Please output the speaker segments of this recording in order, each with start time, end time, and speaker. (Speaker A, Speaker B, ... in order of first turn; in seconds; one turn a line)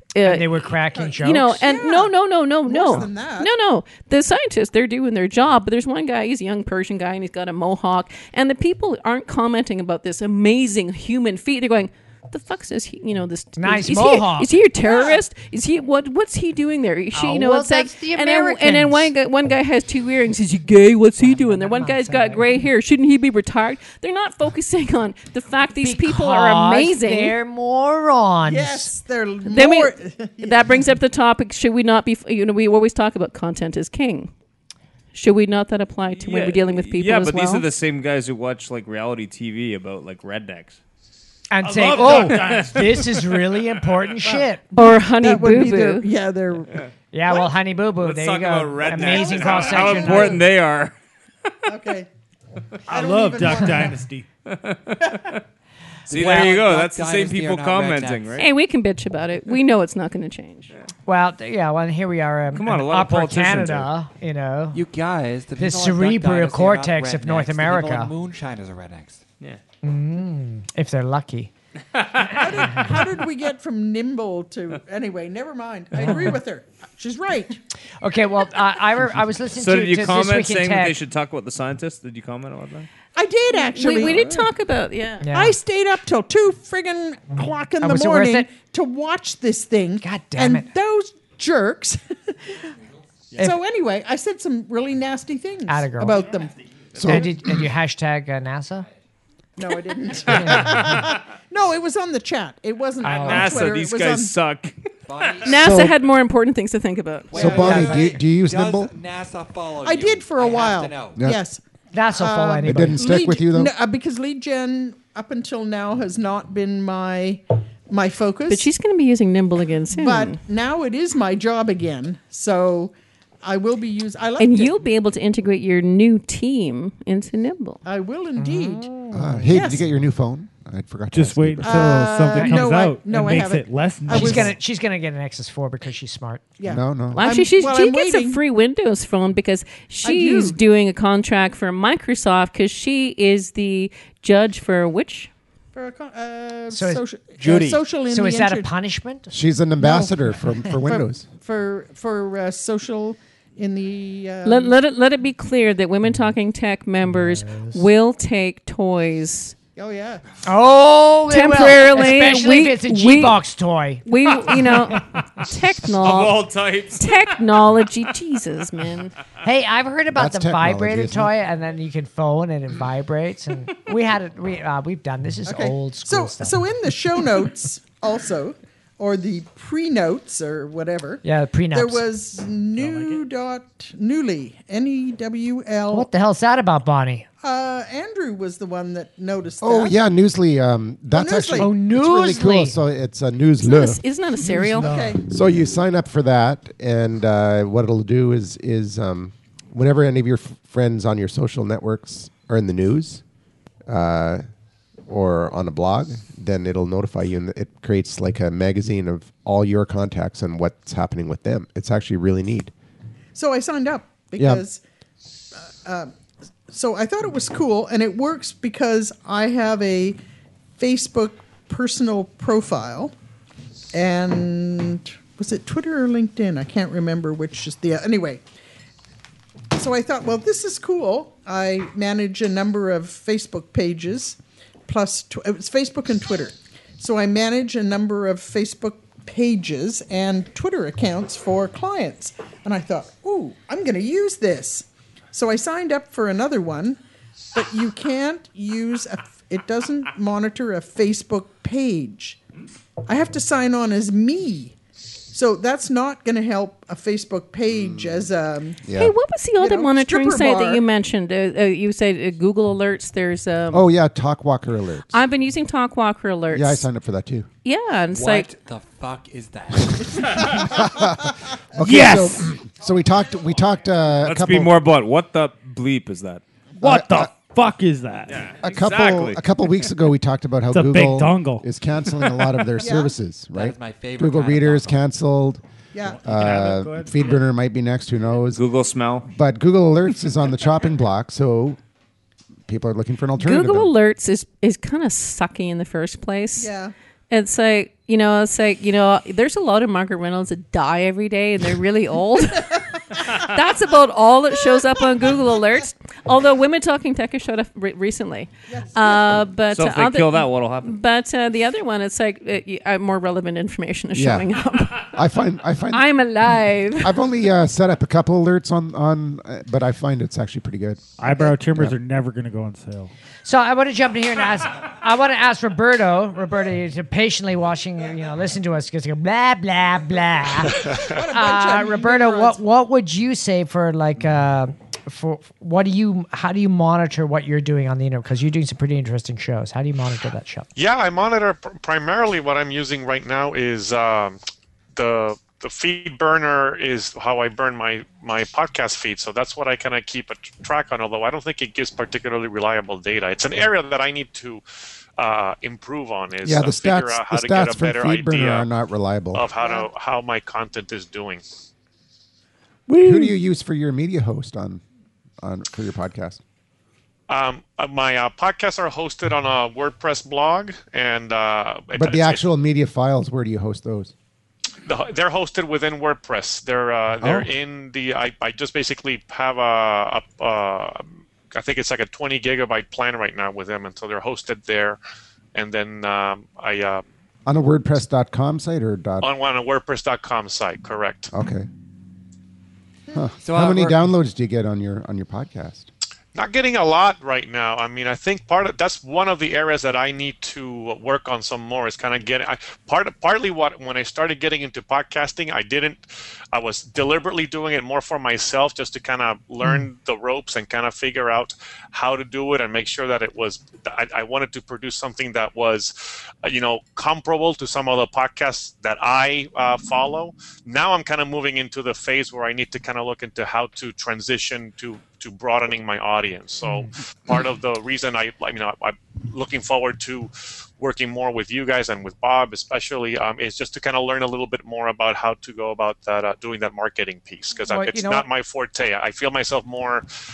Speaker A: 0.1-0.5
Speaker B: 0.2-1.6
Speaker C: 0.9-2.1
Speaker A: 1.2-27.3
Speaker C: 2.6-3.5
Speaker B: 13.6-14.5
Speaker C: 14.8-15.2
Speaker B: 17.1-19.1
Speaker B: 21.2-22.6
Speaker B: 25.8-28.9
Speaker C: 28.4-30.9
Speaker A: 29.5-34.3
Speaker A: 35.1-37.6
Speaker D: 36.1-40.8
Speaker B: 41.5-44.6
Speaker E: 41.6-43.2
Speaker C: 44.2-47.5
Speaker A: 44.7-46.1
Speaker B: 47.1-50.4
Speaker D: 48.0-50.9
Speaker C: 48.9-50.5
Speaker C: 51.7-52.1
Speaker E: 52.9-54.3
Speaker C: 52.9-54.0
Speaker D: 54.5-55.4
Speaker F: 56.1-58.4
Speaker D: 56.1-58.4
Speaker B: 56.1-56.5
Speaker A: 58.4-60.7
Speaker B: 61.0-64.8
Speaker D: 62.5-63.9
Speaker F: 64.7-69.2
Speaker B: 65.6-68.1
Speaker B: 69.8-71.5
Speaker C: 72.1-77.6
Speaker B: 72.3-72.9
Speaker B: 75.9-76.4
Speaker B: 78.0-81.0
Speaker D: 79.5-82.9
Speaker C: 83.1-84.5
Speaker A: 83.5-85.3
Speaker B: 85.2-85.5
Speaker C: 85.3-92.6
Speaker B: 87.8-88.5
Speaker B: 90.0-90.7
Speaker C: 93.4-97.2
Speaker B: 95.7-96.2
Speaker G: 97.0-97.4
Speaker B: 97.0-98.9
Speaker C: 99.6-104.4
Speaker B: 100.3-100.7
Speaker B: 103.0-103.6
Speaker D: 103.1-104.7
Speaker F: 105.1-105.9
Speaker A: 105.4-107.8
Speaker G: 105.5-106.0
Speaker F: 107.3-111.2
Speaker G: 107.3-108.9
Speaker C: 107.4-108.0
Speaker B: 107.6-108.0
Speaker C: 109.8-111.6
Speaker G: 111.2-111.4
Speaker B: 111.9-113.0
Speaker C: 112.1-118.7
Speaker G: 112.6-113.7
Speaker A: 118.5-120.4
Speaker C: 119.9-124.8
Speaker A: 124.4-127.8
Speaker C: 127.8-128.9
Speaker B: 128.3-129.5
Speaker G: 129.1-132.6
Speaker C: 129.5-129.8
Speaker E: 131.1-134.6
Speaker C: 131.6-134.5
Speaker B: 134.1-136.4
Speaker C: 136.6-138.4
Speaker G: 136.7-137.2
Speaker A: 137.1-145.3
Speaker C: 140.0-140.6
Speaker C: 145.7-148.7
Speaker B: 146.7-147.0
Speaker D: 147.4-147.8
Speaker B: 148.1-149.3
Speaker G: 149.3-151.2
Speaker C: 149.8-150.1
Speaker B: 150.4-150.7
Speaker C: 150.8-154.7
Speaker A: 154.4-159.5
Speaker B: 157.0-157.8
Speaker C: 159.8-160.2
Speaker B: 160.4-165.0
Speaker A: 161.3-163.4
Speaker A: 164.0-169.1
Speaker E: 166.0-167.0
Speaker B: 169.4-176.6
Speaker G: 170.1-171.3
Speaker C: 175.4-186.1
Speaker B: 181.2-182.0
Speaker E: 182.8-183.2
Speaker B: 185.9-187.3
Speaker C: 187.4-189.9
Speaker G: 189.6-194.0
Speaker C: 191.1-191.7
Speaker B: 191.6-192.8
Speaker A: 193.6-194.9
Speaker C: 194.6-195.2
Speaker G: 194.8-203.2
Speaker G: 203.8-204.4
Speaker G: 205.1-212.7
Speaker C: 213.3-214.8
Speaker G: 214.4-214.6
Speaker C: 215.5-216.1
Speaker C: 216.7-220.2
Speaker C: 220.8-223.1
Speaker C: 223.9-228.4
Speaker C: 229.7-247.0
Speaker C: 247.5-252.4
Speaker C: 253.1-254.7
Speaker C: 255.3-258.9
Speaker G: 257.7-258.3
Speaker G: 258.9-259.1
Speaker A: 258.9-263.9
Speaker C: 259.6-260.8
Speaker G: 263.7-265.2
Speaker A: 265.1-266.9
Speaker G: 266.5-267.5
Speaker A: 267.6-268.5
Speaker F: 268.1-270.6
Speaker G: 270.3-274.8
Speaker E: 271.8-272.5
Speaker D: 274.2-276.4
Speaker E: 276.8-278.5
Speaker G: 276.8-277.3
Speaker D: 278.3-279.4
Speaker G: 278.6-285.6
Speaker E: 280.7-281.6
Speaker C: 282.8-283.1
Speaker F: 283.5-285.0
Speaker C: 285.9-286.2
Speaker E: 286.1-287.4
Speaker G: 286.2-288.6
Speaker D: 288.5-289.3
Speaker G: 289.3-291.8
Speaker G: 292.7-293.9
Speaker A: 293.4-296.7
Speaker C: 296.6-296.9
Speaker A: 297.3-315.2
Speaker C: 308.7-309.4
Speaker D: 309.7-311.0
Speaker G: 314.1-314.5
Speaker G: 315.1-316.1
Speaker A: 315.9-317.2
Speaker G: 317.0-321.9
Speaker E: 321.2-323.1
Speaker B: 323.4-340.7
Speaker C: 330.8-332.6
Speaker H: 340.8-344.4
Speaker H: 344.9-354.6
Speaker H: 355.2-358.7
Speaker G: 356.4-359.5
Speaker H: 359.3-361.4
Speaker C: 359.6-359.9
Speaker G: 363.0-364.8
Speaker G: 365.4-366.4
Speaker H: 367.3-372.5
Speaker G: 372.0-374.1
Speaker H: 374.8-385.0
Speaker G: 377.2-377.5
Speaker H: 385.5-387.0
Speaker G: 387.4-389.3
Speaker H: 389.2-391.3
Speaker G: 391.3-391.7
Speaker G: 393.1-395.9
Speaker F: 393.4-394.1
Speaker H: 396.3-440.1
Speaker B: 437.7-438.2